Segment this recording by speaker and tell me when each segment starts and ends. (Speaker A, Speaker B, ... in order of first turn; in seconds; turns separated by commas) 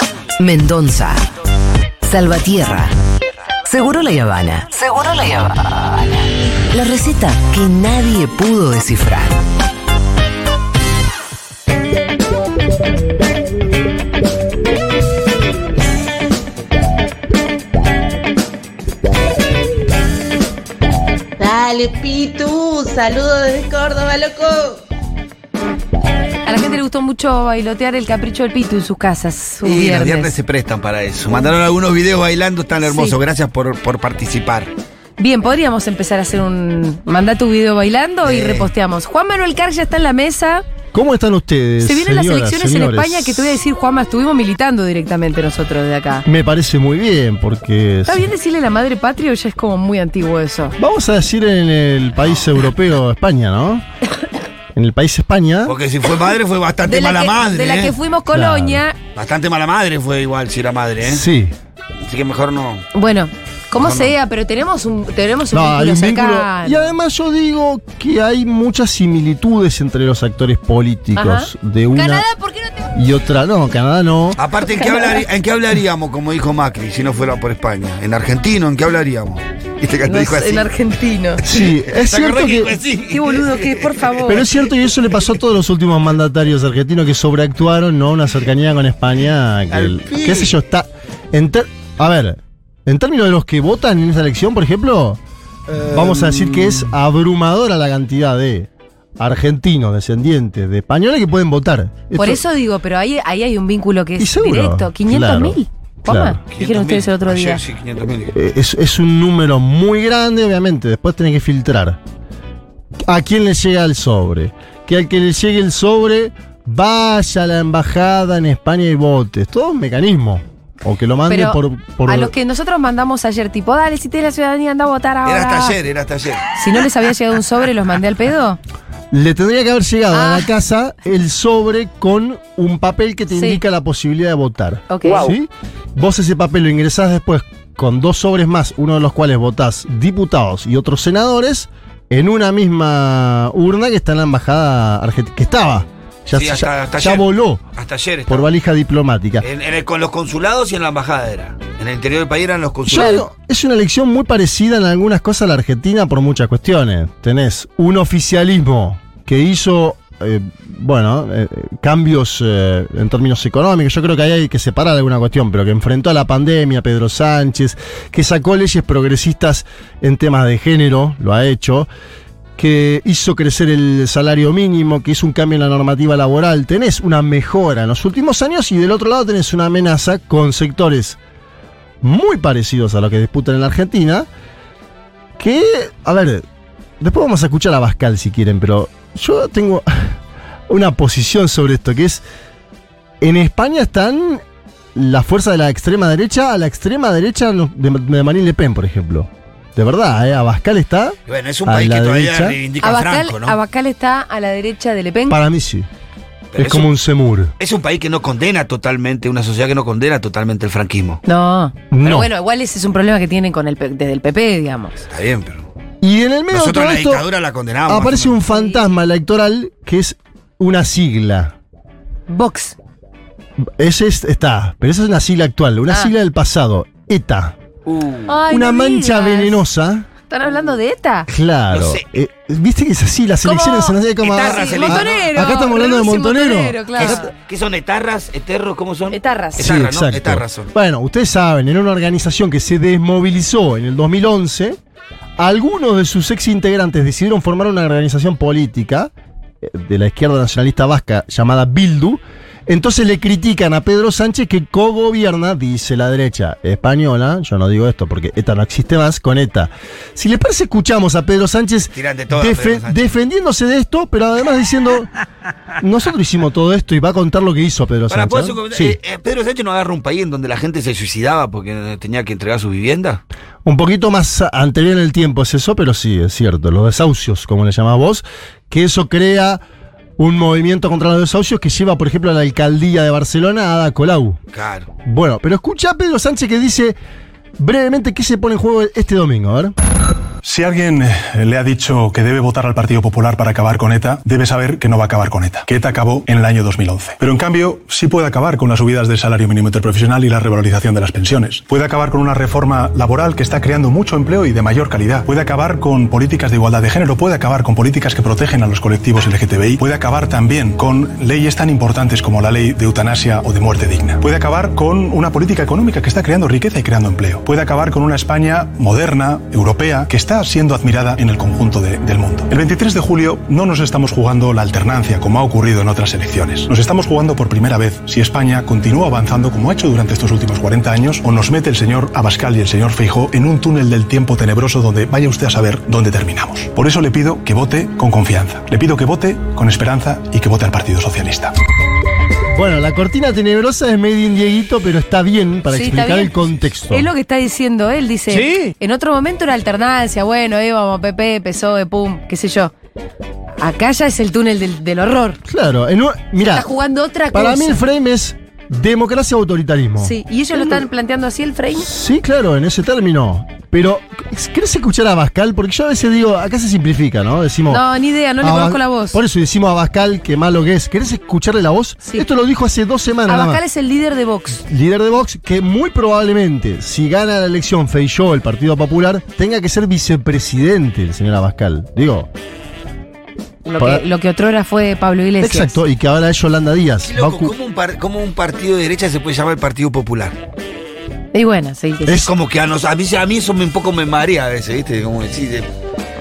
Speaker A: 0.4-1.3, Speaker A: 2.0-2.9, Speaker A: 3.6-9.4, Speaker B: 21.4-24.8, Speaker C: 26.5-30.3, Speaker D: 29.6-34.7, Speaker C: 32.9-33.2, Speaker C: 35.2-40.6, Speaker D: 38.2-38.7, Speaker E: 40.9-43.6, Speaker C: 41.8-46.2, Speaker E: 46.2-48.3, Speaker C: 48.1-50.8, Speaker E: 50.8-53.9, Speaker E: 54.8-55.8, Speaker D: 55.7-58.0, Speaker C: 56.8-59.0, Speaker E: 58.3-58.8, Speaker D: 59.1-61.2, Speaker E: 61.0-61.5, Speaker D: 62.1-62.9, Speaker C: 62.9-66.9, Speaker D: 63.8-64.1, Speaker E: 65.5-72.3, Speaker C: 71.2-72.9, Speaker E: 73.0-74.4, Speaker D: 74.4-80.7, Speaker C: 74.8-75.2, Speaker C: 80.1-81.4, Speaker E: 81.4-82.8, Speaker D: 81.5-84.6, Speaker C: 83.1-84.5, Speaker E: 84.3-95.2, Speaker D: 89.7-90.6, Speaker D: 95.7-96.9, Speaker E: 95.8-102.4, Speaker C: 102.2-107.6, Speaker E: 104.2-106.4, Speaker D: 106.5-108.4, Speaker E: 108.3-112.0, Speaker E: 113.1-122.3, Speaker C: 121.3-125.8, Speaker D: 125.2-126.5, Speaker C: 126.6-128.6, Speaker E: 129.1-147.6, Speaker C: 130.1-130.5, Speaker C: 133.3-133.6, Speaker C: 134.9-135.3, Speaker D: 146.3-148.5, Speaker E: 148.3-149.5, Speaker D: 149.4-153.3, Speaker E: 152.9-171.9, Speaker E: 172.6-181.2, Speaker E: 182.0-184.3, Speaker E: 185.4-186.4, Speaker E: 187.0-190.2, Speaker E: 190.7-192.2, Speaker E: 193.2-194.4, Speaker E: 194.9-202.6, Speaker D: 201.3-203.6, Speaker C: 202.8-205.4, Speaker E: 205.3-205.9, Speaker D: 206.5-206.9, Speaker E: 206.6-207.5, Speaker D: 207.6-211.2, Speaker C: 211.3-215.0, Speaker E: 211.9-212.3, Speaker D: 215.1-215.7, Speaker E: 216.0-217.2, Speaker D: 216.5-218.4, Speaker E: 217.9-221.6, Speaker C: 218.5-218.8, Speaker C: 222.3-222.8, Speaker E: 223.7-227.6, Speaker D: 227.9-228.3, Speaker C: 228.3-229.6, Speaker E: 228.5-230.1, Speaker C: 230.3-231.3, Speaker E: 231.3-237.2, Speaker D: 231.7-232.1, Speaker C: 233.4-237.2, Speaker D: 234.2-235.3, Speaker D: 236.9-240.7, Speaker C: 239.1-239.6, Speaker E: 239.6-244.8, Speaker E: 245.4-249.1, Speaker E: 249.6-265.1, Speaker D: 261.9-263.1, Speaker E: 265.8-269.0, Speaker D: 268.1-273.2, Speaker E: 273.6-279.6, Speaker E: 280.2-284.4, Speaker D: 284.5-284.9, Speaker E: 285.1-287.0, Speaker E: 287.6-289.8, Speaker F: 290.4-341.5, Speaker E: 342.5-347.1, Speaker C: 345.7-346.3, Speaker C: 346.9-352.7, Speaker E: 348.3-348.7, Speaker C: 353.6-355.4, Speaker E: 355.4-356.7, Speaker C: 356.4-357.8, Speaker E: 357.3-360.8, Speaker C: 360.0-361.9, Speaker E: 361.8-367.9, Speaker C: 367.7-369.2, Speaker E: 368.4-373.6, Speaker C: 373.3-374.6, Speaker E: 374.6-382.3, Speaker C: 383.6-385.8, Speaker E: 383.8-384.0, Speaker E: 385.4-387.5, Speaker D: 387.0-390.4, Speaker C: 391.3-392.2, Speaker E: 392.1-392.3, Speaker D: 392.1-395.7